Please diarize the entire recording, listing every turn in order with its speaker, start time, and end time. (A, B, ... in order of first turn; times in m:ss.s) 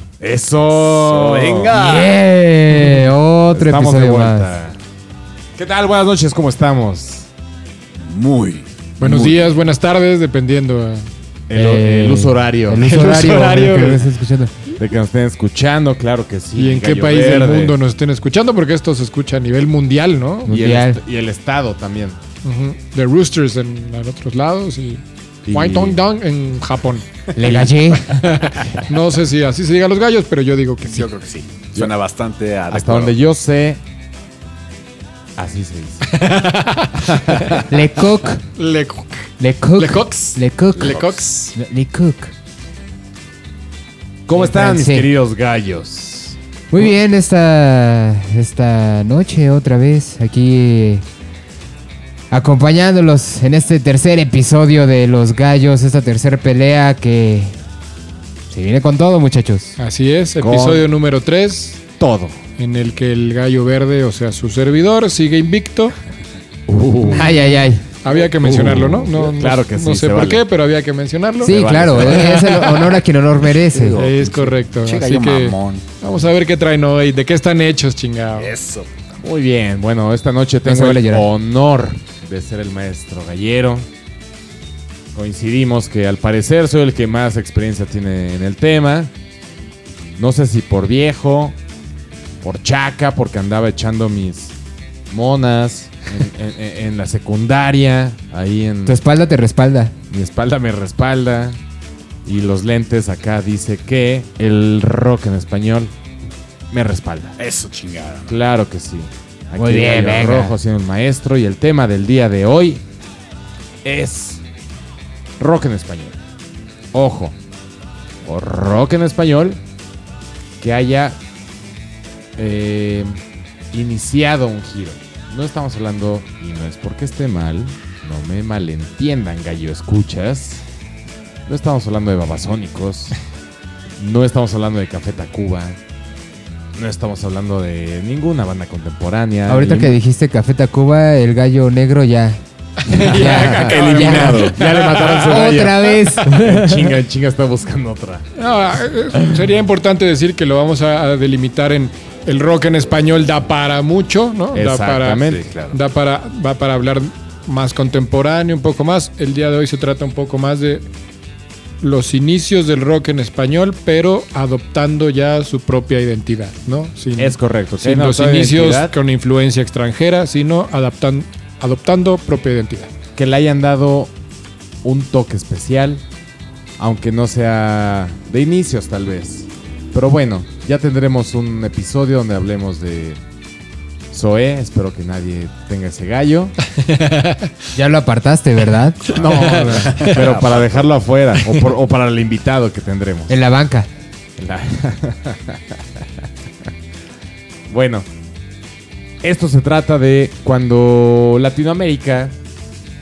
0:00.2-0:01.8 A
0:00.8-0:02.2 B
0:01.8-0:04.6 C
0:03.5-0:04.8 A
0:05.6-0:07.3 A
0:08.0-0:09.4 B
0:09.0-0:11.1 D
0:11.5-0:13.0 A
0:11.5-0:14.6 C
0:12.8-0:14.1 D
0:14.7-0:17.8 A
0:16.6-0:20.5 D
0:20.4-0:22.2 A
0:20.5-0:21.0 C
0:22.4-0:27.1 D
0:25.5-0:26.0 A
0:27.3-0:28.3 C
0:27.6-0:31.1 D
0:30.9-0:33.2 B
0:32.7-0:33.8 A
0:35.4-0:36.2 A
0:36.1-0:37.7 D
0:37.0-0:37.6 A
0:37.7-0:38.4 C
0:38.6-0:41.5 D
0:39.4-0:42.3 C
0:40.8-0:41.2 B
0:44.3-0:46.4 A
0:44.3-0:45.1 C
0:46.7-0:51.0 C
0:52.3-0:57.6 C
0:58.5-0:59.8 C
0:59.8-1:01.8 D
1:00.4-1:00.9 A
1:02.0-1:02.4 A
1:02.6-1:05.9 D
1:06.7-1:07.4 A
1:07.1-1:07.8 C
1:08.0-1:13.0 D
1:08.2-1:10.4 A
1:11.4-1:14.0 C
1:11.4-1:12.5 A
1:13.6-1:15.9 B
1:13.9-1:18.5 D
1:18.4-1:19.1 B
1:19.2-1:23.9 A
1:20.6-1:21.3 C
1:25.1-1:29.1 A
1:30.2-1:31.6 A
1:32.4-1:34.6 A
1:35.1-1:39.0 A
1:38.9-1:40.0 C
1:40.1-1:41.6 A
1:42.2-1:45.9 A
1:46.7-1:47.4 A
1:47.4-1:48.4 B
1:48.3-1:52.8 A
1:49.6-1:50.6 C
1:53.8-1:54.4 A
1:55.4-1:56.2 A
1:56.9-1:57.4 A
1:58.2-1:59.6 A
2:00.6-2:01.2 A
2:02.4-2:03.2 A
2:03.7-2:10.6 A
2:11.5-2:13.2 A
2:14.0-2:15.8 A
2:16.8-2:20.0 A
2:19.5-2:24.6 C
2:22.8-2:25.6 D
2:22.9-2:28.3 A
2:25.2-2:27.0 C
2:28.4-2:40.9 D
2:29.2-2:29.4 A
2:34.5-2:35.5 A
2:35.2-2:35.8 B
2:41.8-2:52.9 D
2:47.2-2:49.0 A
2:53.2-2:54.1 A
2:54.8-2:56.0 A
2:56.8-3:03.2 A
3:04.1-3:06.6 A
3:06.8-3:07.5 D
3:07.8-3:09.9 C
3:09.0-3:13.4 A
3:09.1-3:10.9 B
3:09.3-3:10.2 D
3:13.3-3:13.9 C
3:14.4-3:16.1 A
3:17.7-3:18.1 A
3:19.2-3:22.4 A